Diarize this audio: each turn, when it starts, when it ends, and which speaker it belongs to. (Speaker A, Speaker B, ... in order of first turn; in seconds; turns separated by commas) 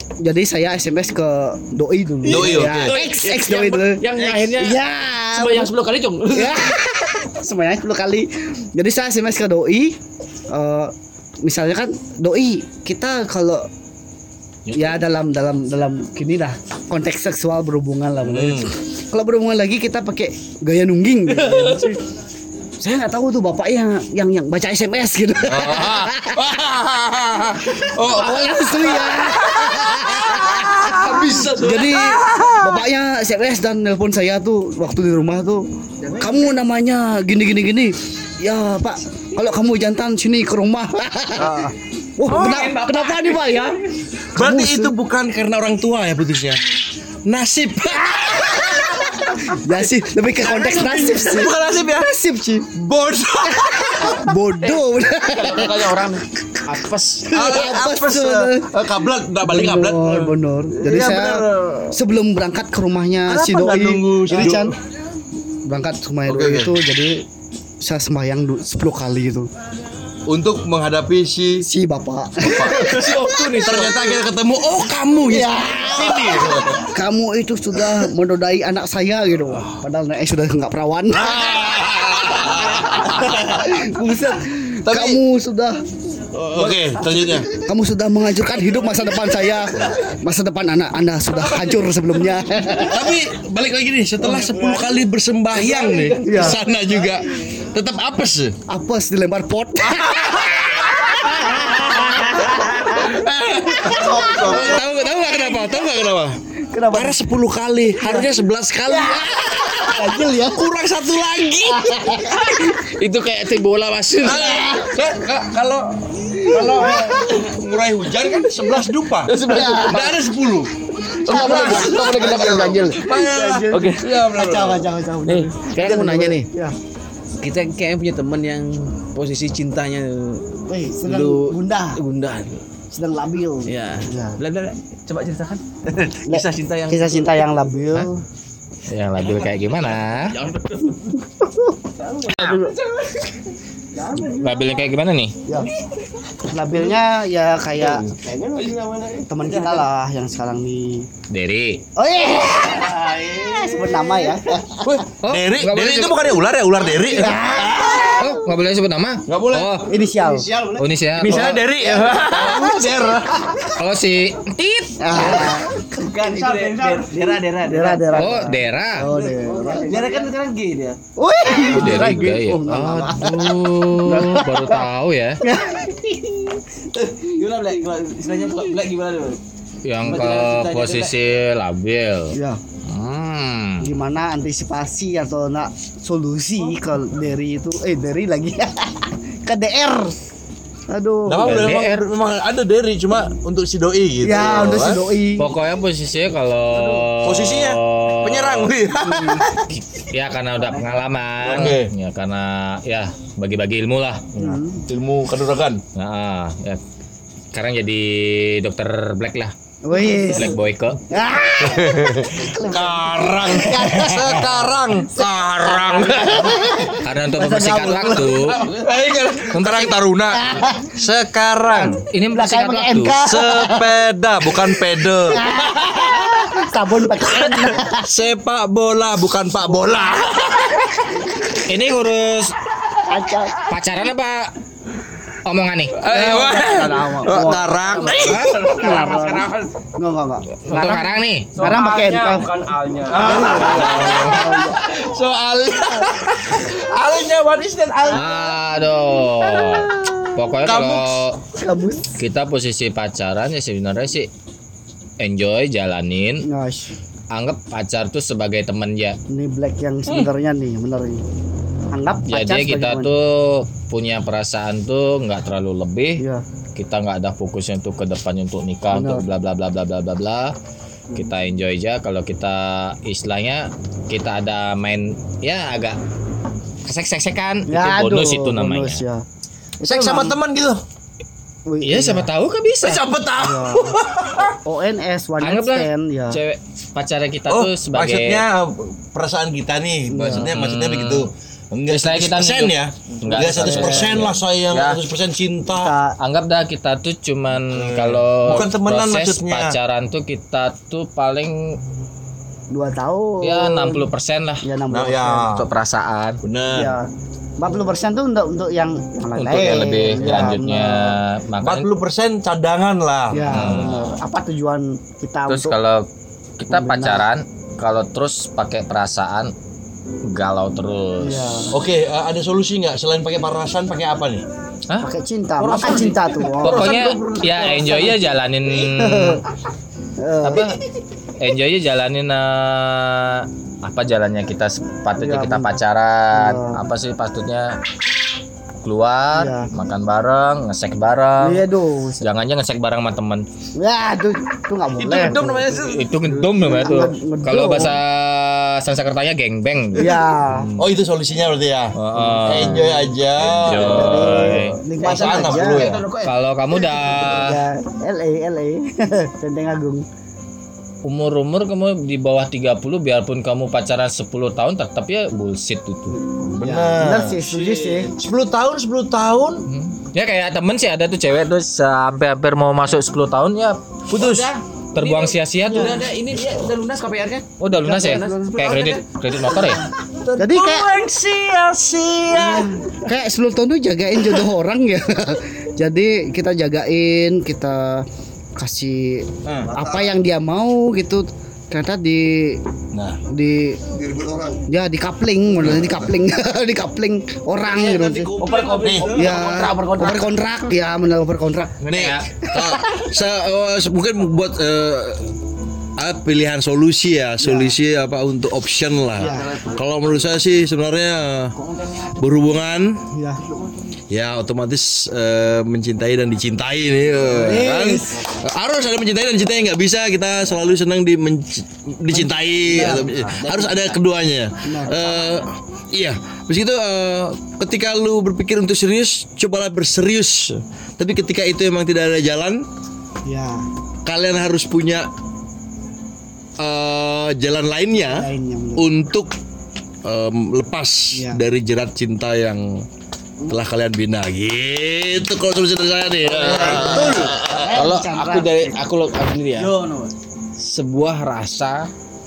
Speaker A: 0.2-5.7, Speaker B: 2.2-4.8, Speaker C: 2.2-3.0, Speaker B: 5.3-6.6, Speaker A: 6.3-10.0, Speaker A: 10.5-13.7, Speaker A: 14.7-21.9, Speaker C: 18.2-18.7, Speaker B: 21.5-21.8, Speaker A: 22.8-26.5, Speaker C: 25.5-32.8, Speaker A: 27.7-35.6, Speaker A: 36.2-43.8, Speaker B: 42.3-43.5, Speaker A: 44.4-44.9, Speaker C: 44.4-46.6, Speaker C: 47.2-52.1, Speaker A: 49.5-52.7, Speaker C: 52.7-54.2, Speaker A: 53.6-56.0, Speaker B: 54.6-57.3, Speaker A: 57.3-58.9, Speaker C: 57.3-62.0, Speaker A: 59.4-64.8, Speaker C: 63.3-64.7, Speaker A: 65.7-67.2, Speaker C: 66.2-66.8, Speaker A: 67.8-69.5, Speaker C: 70.3-71.6, Speaker A: 71.6-74.1, Speaker C: 72.4-76.9, Speaker B: 72.7-74.1, Speaker A: 75.3-85.8, Speaker C: 81.1-83.9, Speaker C: 84.9-85.2, Speaker C: 86.3-87.5, Speaker A: 86.5-93.1, Speaker C: 92.9-98.5, Speaker A: 94.2-94.7, Speaker D: 95.6-96.5, Speaker A: 96.2-96.6, Speaker A: 98.7-103.1, Speaker C: 99.8-106.3, Speaker A: 103.7-104.8, Speaker E: 104.5-104.8, Speaker A: 106.7-107.2, Speaker C: 106.9-112.5, Speaker A: 108.0-108.3, Speaker A: 108.9-110.7, Speaker A: 111.7-112.4, Speaker B: 112.8-114.6, Speaker C: 114.2-120.7, Speaker A: 114.3-115.1, Speaker A: 116.3-117.1, Speaker B: 119.2-120.1, Speaker A: 119.4-120.2, Speaker B: 121.2-123.1, Speaker C: 121.2-124.8, Speaker A: 121.3-122.1, Speaker E: 121.9-122.9, Speaker A: 122.9-126.8, Speaker B: 123.7-124.0, Speaker B: 125.2-126.5, Speaker B: 127.4-132.6, Speaker A: 130.7-132.0, Speaker A: 132.9-134.4, Speaker B: 133.6-137.5, Speaker A: 136.3-138.2, Speaker F: 138.9-140.3, Speaker B: 140.1-141.0, Speaker A: 141.1-142.7, Speaker F: 142.4-142.7, Speaker A: 144.1-144.6, Speaker F: 144.3-145.4, Speaker A: 146.5-148.1, Speaker C: 147.8-149.7, Speaker A: 149.3-151.1, Speaker F: 151.3-151.8, Speaker A: 152.0-152.9, Speaker C: 152.6-154.3, Speaker A: 153.6-154.9, Speaker C: 154.8-158.2, Speaker F: 155.0-156.3, Speaker A: 157.0-158.4, Speaker F: 158.1-159.9, Speaker C: 159.3-159.8, Speaker A: 159.9-160.7, Speaker F: 160.7-161.6, Speaker C: 161.2-163.2, Speaker A: 161.3-163.7, Speaker F: 163.8-165.0, Speaker A: 165.0-170.1, Speaker B: 165.1-168.5, Speaker D: 166.4-167.1, Speaker F: 168.1-169.1, Speaker B: 169.3-171.0, Speaker A: 171.2-174.8, Speaker F: 171.7-175.4, Speaker A: 175.4-176.6, Speaker B: 177.0-179.4, Speaker F: 179.8-182.4, Speaker B: 180.0-181.2, Speaker A: 182.3-182.6, Speaker F: 182.9-183.9, Speaker A: 183.8-190.1, Speaker A: 190.9-191.7, Speaker C: 191.3-195.0, Speaker F: 191.4-192.0, Speaker A: 194.2-195.5, Speaker F: 195.4-198.7, Speaker A: 196.7-197.0, Speaker C: 197.2-199.7, Speaker A: 199.0-199.6, Speaker F: 199.7-204.6, Speaker A: 200.6-200.9, Speaker C: 201.4-201.9, Speaker A: 204.3-204.8, Speaker C: 204.9-205.8, Speaker F: 205.9-206.8, Speaker F: 207.5-209.5, Speaker A: 209.8-214.7, Speaker F: 210.3-211.0, Speaker C: 211.7-216.9, Speaker A: 215.6-218.3, Speaker F: 217.0-218.6, Speaker C: 217.6-222.0, Speaker F: 219.5-220.0, Speaker A: 220.3-220.8, Speaker F: 222.0-223.2, Speaker A: 222.3-223.9, Speaker C: 223.2-225.4, Speaker A: 225.3-228.1, Speaker C: 227.3-231.1, Speaker F: 231.7-232.5, Speaker A: 233.1-233.6, Speaker F: 233.7-234.5, Speaker F: 235.5-236.0, Speaker C: 236.0-239.0, Speaker A: 236.0-242.5, Speaker D: 238.0-238.4, Speaker F: 238.3-239.1, Speaker B: 238.4-239.3, Speaker D: 238.9-239.5, Speaker F: 240.6-241.6, Speaker D: 241.6-243.9, Speaker C: 243.1-248.4, Speaker A: 243.2-244.8, Speaker F: 243.7-244.2, Speaker F: 248.1-251.4, Speaker C: 249.5-251.2, Speaker A: 251.5-252.1, Speaker F: 252.2-254.3, Speaker F: 255.2-256.4, Speaker A: 256.5-256.9, Speaker F: 257.3-259.2, Speaker A: 259.3-261.2, Speaker A: 261.9-263.1, Speaker F: 262.3-266.2, Speaker A: 266.2-266.4, Speaker F: 266.8-270.5, Speaker A: 268.9-269.2, Speaker F: 271.1-276.0, Speaker F: 276.9-279.0, Speaker A: 277.7-279.2, Speaker A: 279.8-280.4, Speaker C: 279.8-280.8, Speaker A: 281.6-282.3, Speaker F: 281.8-283.0, Speaker C: 282.8-284.6, Speaker A: 283.4-283.9, Speaker A: 284.6-286.4, Speaker F: 285.4-288.4, Speaker C: 287.5-295.9, Speaker A: 290.1-290.5, Speaker F: 290.4-291.3, Speaker F: 291.9-295.0, Speaker A: 293.4-294.2, Speaker A: 295.7-296.1, Speaker F: 296.2-301.8, Speaker C: 297.7-299.8, Speaker A: 302.7-304.1, Speaker F: 303.4-304.6, Speaker A: 304.6-305.5, Speaker C: 304.9-305.6, Speaker F: 305.6-306.4, Speaker C: 306.4-306.9, Speaker A: 306.7-311.1, Speaker F: 309.3-311.9, Speaker C: 310.2-310.5, Speaker C: 311.6-313.7, Speaker A: 313.3-315.8, Speaker F: 313.5-314.2, Speaker F: 315.5-316.1, Speaker F: 316.6-319.5, Speaker A: 316.7-317.2, Speaker F: 320.3-321.6, Speaker A: 321.2-321.7, Speaker C: 321.7-324.4, Speaker A: 325.0-327.0, Speaker C: 325.6-328.0, Speaker F: 326.6-329.4, Speaker A: 327.6-329.4, Speaker A: 330.2-330.7, Speaker F: 330.4-330.8, Speaker F: 331.4-337.8, Speaker A: 335.2-335.8, Speaker A: 336.3-336.8, Speaker F: 338.8-341.6, Speaker A: 339.3-339.7, Speaker A: 341.4-342.2, Speaker F: 342.2-343.4, Speaker A: 343.8-345.8, Speaker B: 345.0-346.1, Speaker F: 345.1-350.9, Speaker A: 346.7-348.0, Speaker A: 349.9-350.7, Speaker C: 350.8-356.1, Speaker F: 351.9-354.8, Speaker A: 352.4-352.8, Speaker A: 353.7-355.8, Speaker B: 355.0-356.3, Speaker F: 356.2-357.6, Speaker A: 356.9-360.0, Speaker F: 361.0-366.2, Speaker C: 366.4-369.6, Speaker A: 366.6-368.1, Speaker F: 369.7-376.0, Speaker B: 374.1-379.0, Speaker F: 377.6-379.8, Speaker A: 377.8-378.8, Speaker A: 380.4-380.9, Speaker C: 380.4-382.7, Speaker A: 382.3-388.0, Speaker A: 388.6-392.6, Speaker E: 389.7-390.2, Speaker C: 392.9-393.2, Speaker A: 393.3-393.8, Speaker E: 393.9-394.6, Speaker A: 394.7-398.3, Speaker C: 395.6-396.1, Speaker C: 397.6-399.6, Speaker D: 398.4-399.5, Speaker B: 398.4-400.3, Speaker A: 399.1-401.8, Speaker F: 401.8-402.3, Speaker C: 401.9-405.2, Speaker A: 402.4-402.7, Speaker C: 406.0-411.5, Speaker A: 407.4-407.8, Speaker A: 409.2-409.5, Speaker D: 411.7-412.1, Speaker C: 412.2-412.9, Speaker A: 413.1-413.4, Speaker C: 414.1-432.6, Speaker A: 417.2-418.2, Speaker A: 422.1-423.1, Speaker B: 422.7-424.0, Speaker A: 424.6-425.4, Speaker A: 433.2-433.6, Speaker C: 434.1-435.1, Speaker C: 436.6-438.2, Speaker A: 438.1-438.8, Speaker C: 438.8-439.3, Speaker C: 440.0-442.8, Speaker A: 441.1-441.4, Speaker C: 443.5-447.9, Speaker A: 446.2-448.8, Speaker B: 446.4-449.8, Speaker D: 449.6-450.1, Speaker B: 450.6-451.9